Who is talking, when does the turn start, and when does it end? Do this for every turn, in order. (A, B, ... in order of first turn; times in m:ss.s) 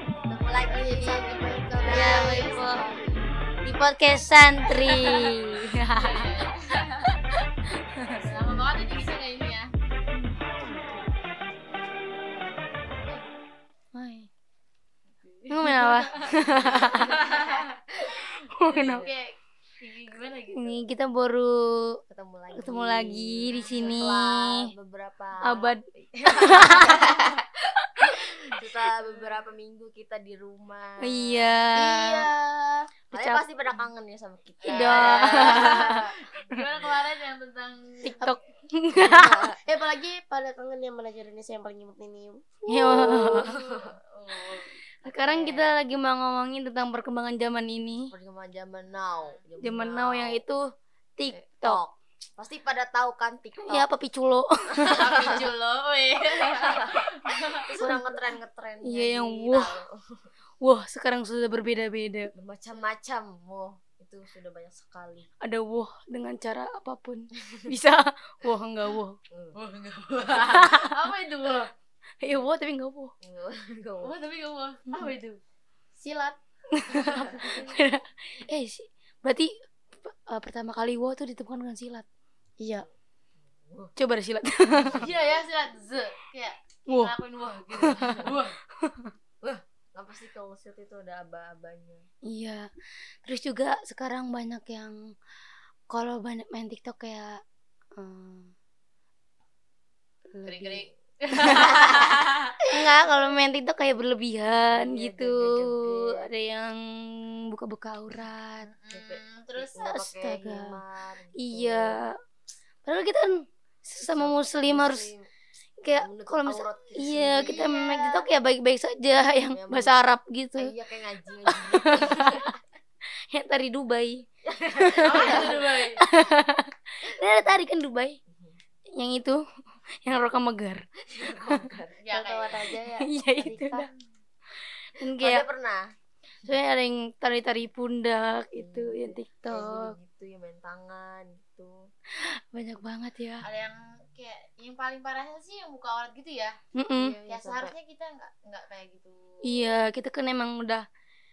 0:00.2-0:03.0 A
0:00.7-0:02.9 B
0:00.7-0:03.0 C
0:01.9-0:02.9 D
0:03.6-0:06.3 D
0:04.8-0:05.3 B
0:05.9-0:07.1 B
0:08.2-0:09.7 B
0:12.8-0:13.3 B
0:13.9-0:14.3 D
0:15.2-0:17.7 B
0:15.5-0:17.4 D
0:16.8-0:17.4 A
0:18.5-0:19.1 D
0:18.6-0:19.3 B
0:19.8-0:20.8 B
0:20.5-0:22.0 D
0:22.1-0:27.1 A
0:22.5-0:24.7 D
0:23.5-0:24.0 B
0:25.5-0:26.9 D
0:28.6-0:31.6 A
0:31.0-0:32.3 D
0:31.8-0:32.9 C
0:33.1-0:33.4 D
0:33.1-0:35.8 A
0:34.6-0:38.3 B
0:34.7-0:36.0 D
0:38.0-0:39.2 D
0:39.0-0:39.6 A
0:39.6-0:42.4 C
0:42.7-0:43.5 D
0:42.9-0:44.7 B
0:45.0-0:48.1 D
0:45.1-0:45.7 A
0:48.1-0:50.4 A
0:49.6-0:50.6 D
0:51.2-0:51.8 D
0:51.3-0:53.9 A
0:53.7-0:55.0 D
0:54.8-0:57.7 B
0:55.0-0:55.5 A
0:56.6-0:57.0 A
0:57.6-1:00.3 A
0:58.8-0:59.7 D
1:00.6-1:02.3 D
1:02.4-1:05.3 A
1:05.4-1:09.2 D
1:09.3-1:09.6 A
1:09.6-1:11.7 B
1:10.4-1:10.9 D
1:12.2-1:13.1 D
1:13.2-1:14.2 A
1:14.0-1:15.4 B
1:16.0-1:16.4 C
1:16.7-1:19.5 D
1:20.0-1:22.1 D
1:22.6-1:22.9 C
1:23.5-1:23.9 A
1:24.0-1:25.0 D
1:24.9-1:25.2 A
1:24.9-1:28.6 B
1:26.9-1:27.1 D
1:27.7-1:28.3 D
1:28.8-1:29.1 D
1:29.4-1:32.0 A
1:32.3-1:32.7 D
1:33.2-1:35.0 D
1:35.9-1:37.4 D
1:38.0-1:38.5 D
1:40.3-1:40.8 D
1:40.4-1:42.2 B
1:41.4-1:41.7 D
1:42.6-1:46.8 D
1:44.7-1:46.3 A
1:47.5-1:48.7 D
1:48.6-1:49.7 B
1:48.9-1:52.0 A
1:49.8-1:50.8 D
1:51.4-1:52.1 D
1:52.8-1:55.1 D
1:54.0-1:55.3 A
1:55.8-2:00.7 D
1:56.0-1:57.7 A
1:57.3-1:58.2 B
1:59.5-2:02.6 A
2:01.5-2:02.5 D
2:03.3-2:04.2 D
2:04.5-2:05.7 A
2:04.8-2:08.2 D
2:05.0-2:06.0 B
2:07.3-2:07.7 A
2:08.3-2:08.6 A
2:09.0-2:09.4 D
2:10.0-2:10.8 D
2:11.1-2:12.8 A
2:12.0-2:12.6 B
2:12.2-2:13.1 C
2:13.0-2:13.9 D
2:13.3-2:13.9 B
2:15.0-2:15.4 D
2:15.2-2:15.8 A
2:16.4-2:19.9 D
2:18.6-2:21.9 A
2:22.5-2:23.4 D
2:23.4-2:29.7 B
2:26.8-2:27.2 D
2:27.3-2:27.7 A
2:29.4-2:30.8 D